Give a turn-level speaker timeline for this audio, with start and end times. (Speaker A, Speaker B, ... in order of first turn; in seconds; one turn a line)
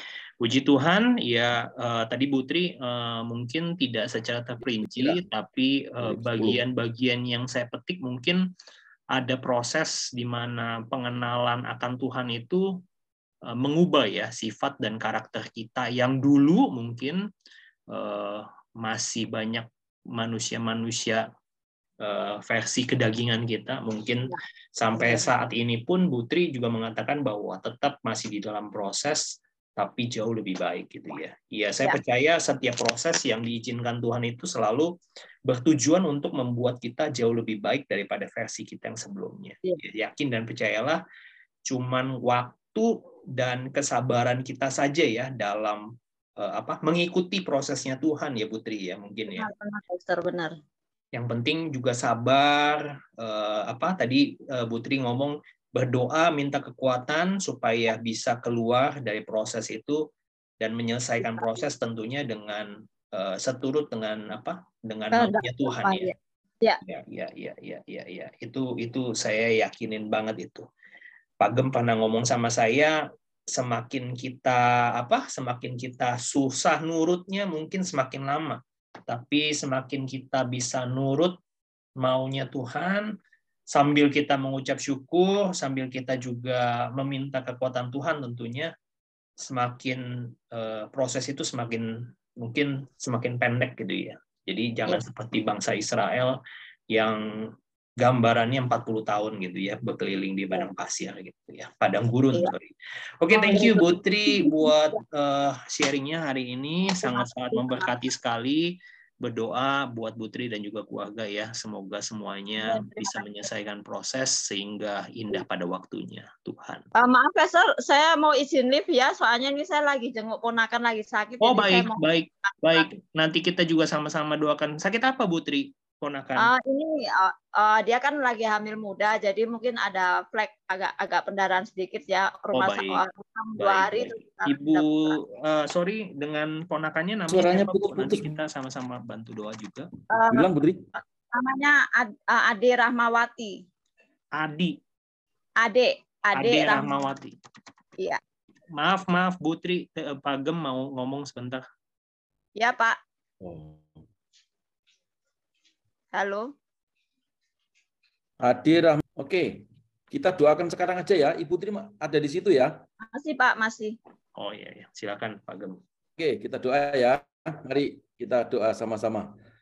Speaker A: 0.4-8.4
Speaker B: 4.8-5.2
Speaker B: 6.0-6.6
Speaker A: 9.1-12.6
Speaker A: 13.5-17.2
Speaker A: 17.9-21.2
Speaker A: 22.0-34.9
Speaker C: 24.9-25.3
Speaker A: 35.5-41.0
Speaker A: 41.7-45.8
Speaker A: 46.4-49.5
Speaker C: 49.4-50.5
Speaker A: 51.1-60.0
Speaker A: 60.6-66.1
Speaker C: 61.2-61.5
Speaker C: 65.1-66.8
Speaker A: 66.8-70.7
Speaker A: 71.4-73.0
Speaker A: 73.5-81.4
Speaker A: 82.0-83.1
Speaker A: 83.7-88.7
Speaker A: 89.4-91.9
Speaker A: 92.4-96.4
Speaker A: 96.9-116.9
Speaker C: 103.3-105.0
Speaker C: 107.0-107.9
Speaker C: 112.6-113.2
Speaker C: 117.0-122.9
Speaker A: 121.4-126.5
Speaker C: 126.4-135.2
Speaker A: 132.5-133.0
Speaker A: 133.6-139.9
Speaker B: 137.3-138.3
Speaker C: 140.1-143.6
Speaker B: 140.3-140.9
Speaker A: 144.4-144.8
Speaker C: 145.6-146.9
Speaker A: 146.3-147.3
Speaker A: 148.8-151.6
Speaker C: 152.6-153.0
Speaker B: 153.4-154.0
Speaker C: 156.1-156.5
Speaker B: 158.4-162.7
Speaker C: 163.1-164.0
Speaker A: 164.4-165.8
Speaker B: 166.2-169.3